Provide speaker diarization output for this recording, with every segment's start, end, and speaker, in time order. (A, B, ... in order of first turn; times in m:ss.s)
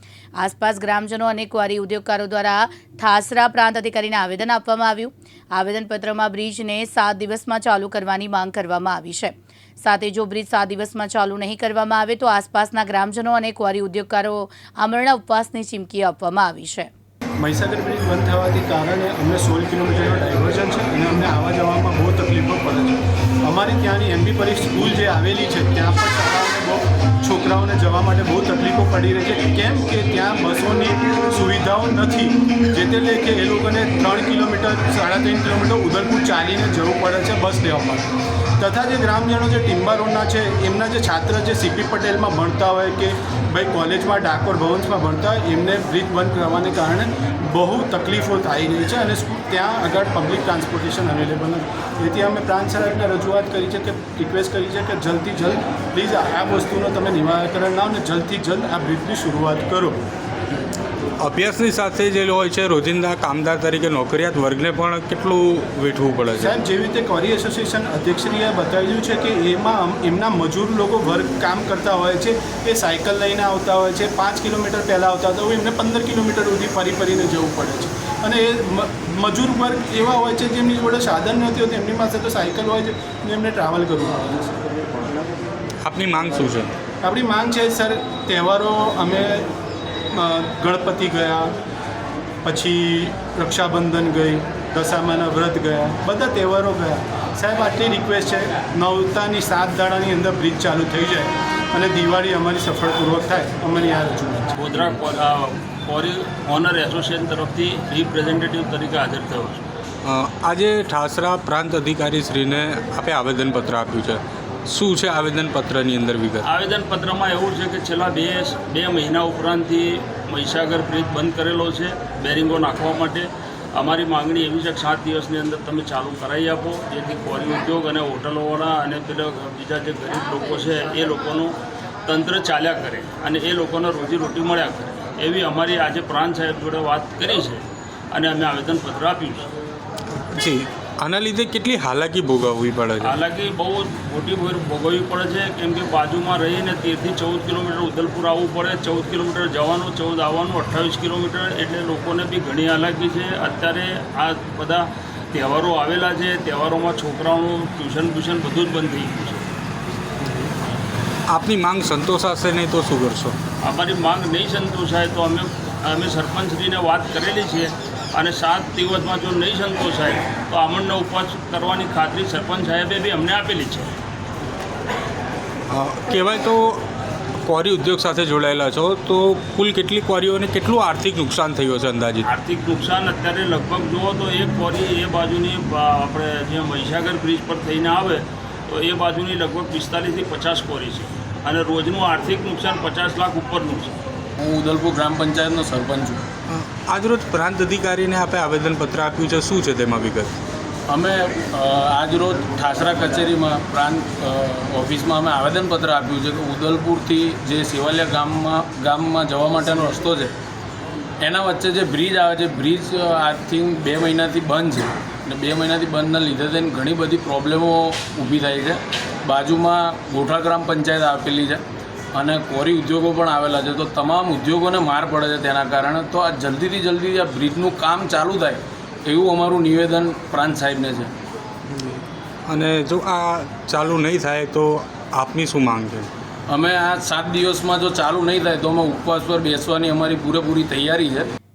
0:00.4-0:16.9 A
0:17.4-0:38.1 B
0:38.6-1:00.0 B
1:01.2-1:06.5 C
1:06.4-1:24.8 B
1:25.8-1:26.7 C
1:27.0-1:29.5 B
1:30.1-1:31.6 B
1:32.4-1:44.5 B
1:44.6-1:49.6 D
1:50.0-1:56.5 C
1:56.4-2:19.5 D
2:20.2-2:23.2 C
2:23.0-2:39.5 D
2:40.2-2:40.5 C
2:41.3-2:43.4 C
2:43.6-2:53.9 D
2:55.7-2:56.8 C
2:57.4-3:02.3 C
3:02.2-3:14.0 D
3:14.4-3:16.3 E
3:16.5-3:20.4 C
3:20.9-3:30.3 E
3:31.2-3:51.1 E
3:51.7-3:56.1 C
3:56.5-4:01.3 E